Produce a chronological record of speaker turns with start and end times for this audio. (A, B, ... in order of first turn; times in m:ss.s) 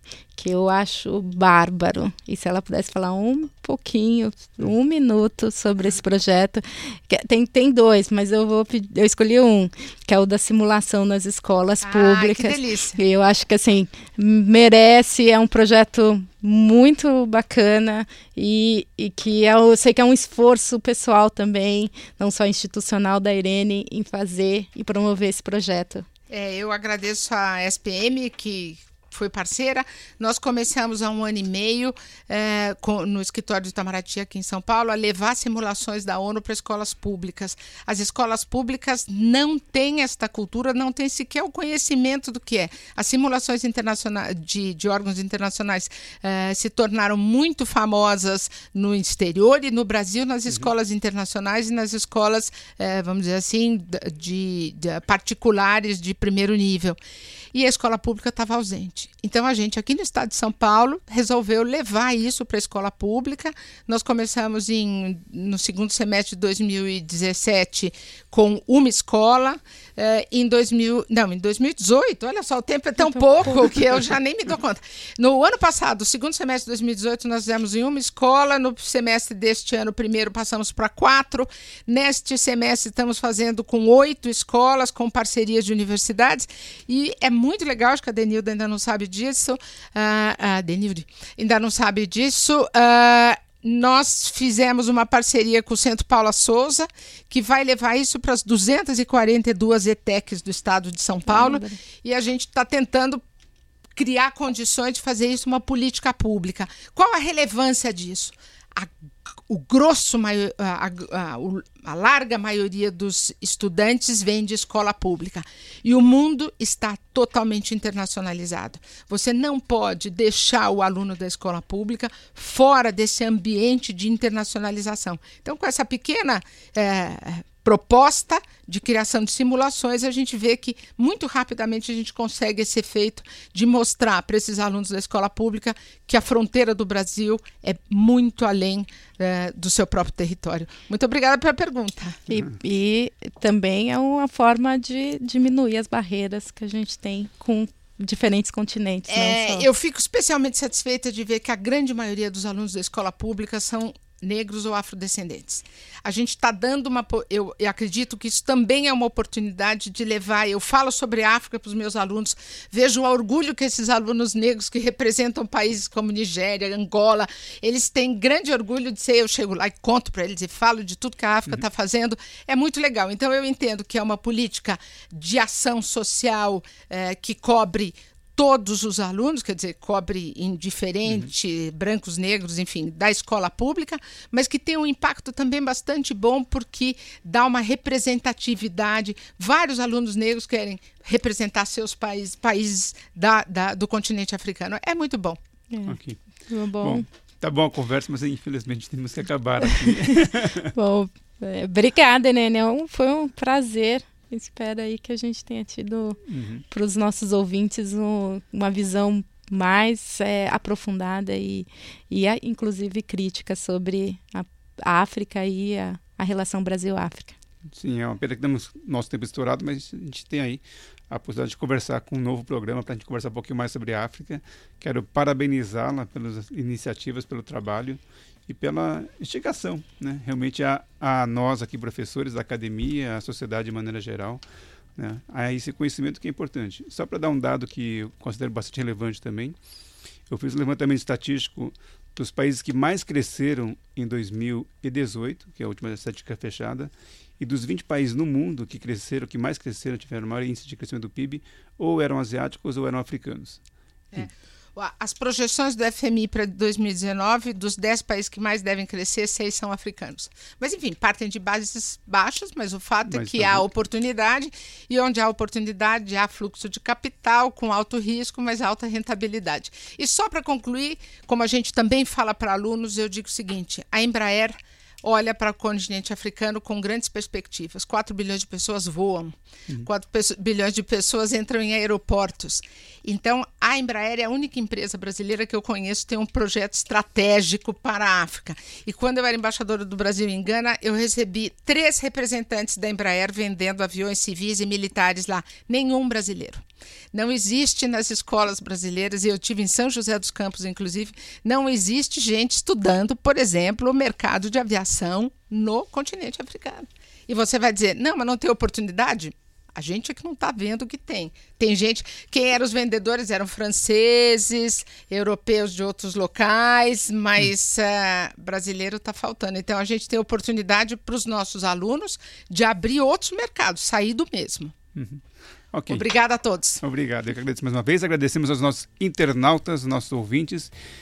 0:00.4-0:26.0 A
0:11.8-0:13.0 B
0:26.3-0:57.0 B
0:57.5-1:43.2 B
1:41.3-1:41.8 A
1:44.0-2:22.2 B
2:22.3-2:29.7 A
2:29.1-3:15.4 B
3:15.7-3:17.0 A
3:15.9-3:16.2 C
3:16.8-3:20.7 C
3:19.7-3:37.4 A
3:26.3-3:26.6 C
3:37.7-3:54.4 C
3:55.0-3:59.6 C
4:00.3-4:13.6 C
4:14.1-5:24.7 B
4:23.1-4:23.6 C
5:24.9-5:26.1 C
5:25.9-5:26.8 B
5:26.8-5:30.7 C